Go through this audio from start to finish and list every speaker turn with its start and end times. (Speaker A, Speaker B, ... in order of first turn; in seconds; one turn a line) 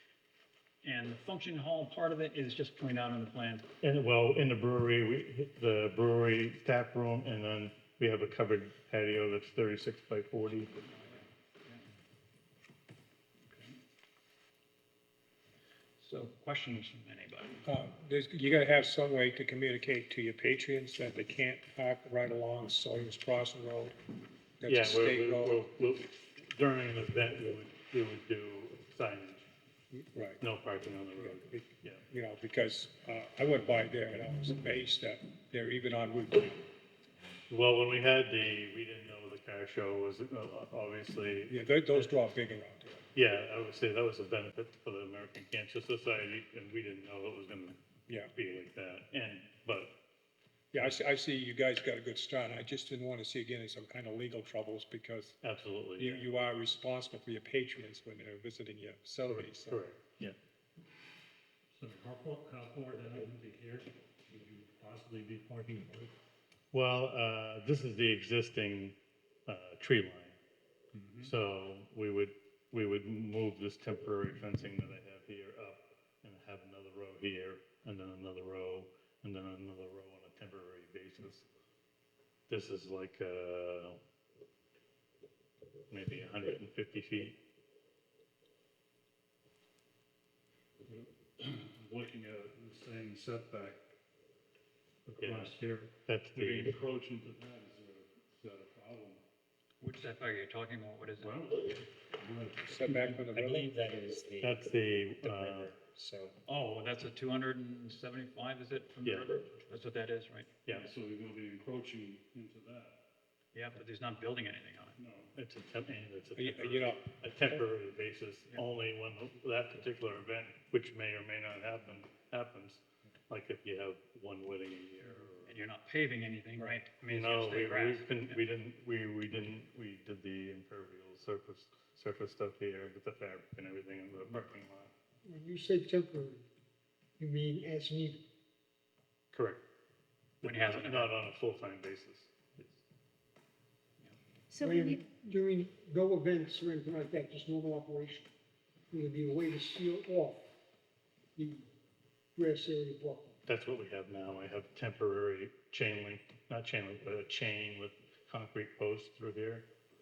Speaker A: 0.8-3.7
Speaker B: 3.8-10.7
Speaker A: 10.8-11.9
Speaker A: 13.4-13.8
Speaker A: 16.0-17.6
Speaker C: 17.6-24.0
Speaker C: 24.6-25.7
Speaker B: 24.7-29.5
Speaker C: 29.9-30.4
Speaker B: 30.4-32.0
Speaker C: 31.2-36.6
Speaker B: 37.5-42.2
Speaker C: 41.5-43.0
Speaker B: 43.1-47.8
Speaker B: 48.3-50.0
Speaker C: 50.7-55.4
Speaker B: 55.4-56.3
Speaker C: 56.0-59.8
Speaker B: 59.4-60.4
Speaker D: 61.7-66.1
Speaker B: 66.7-70.4
Speaker D: 70.9-71.3
Speaker B: 71.2-81.5
Speaker B: 82.5-84.0
Speaker B: 85.9-87.4
Speaker D: 90.9-93.8
Speaker D: 95.1-99.2
Speaker B: 95.2-96.7
Speaker A: 99.8-101.4
Speaker D: 101.2-103.2
Speaker C: 102.7-103.7
Speaker E: 102.8-104.7
Speaker B: 104.4-105.8
Speaker E: 105.2-106.3
Speaker A: 106.5-110.6
Speaker B: 109.0-109.4
Speaker D: 110.7-113.0
Speaker A: 113.5-115.0
Speaker D: 115.0-115.3
Speaker B: 115.3-125.5
Speaker C: 116.4-117.6
Speaker A: 125.4-128.4
Speaker B: 127.1-134.9
Speaker F: 135.2-136.4
Speaker F: 137.2-138.2
Speaker B: 139.3-139.6
Speaker B: 140.4-142.8
Speaker A: 140.4-141.2
Speaker F: 144.6-148.3
Speaker F: 148.9-150.5
Speaker F: 151.4-151.7
Speaker F: 152.4-153.3
Speaker B: 153.5-159.7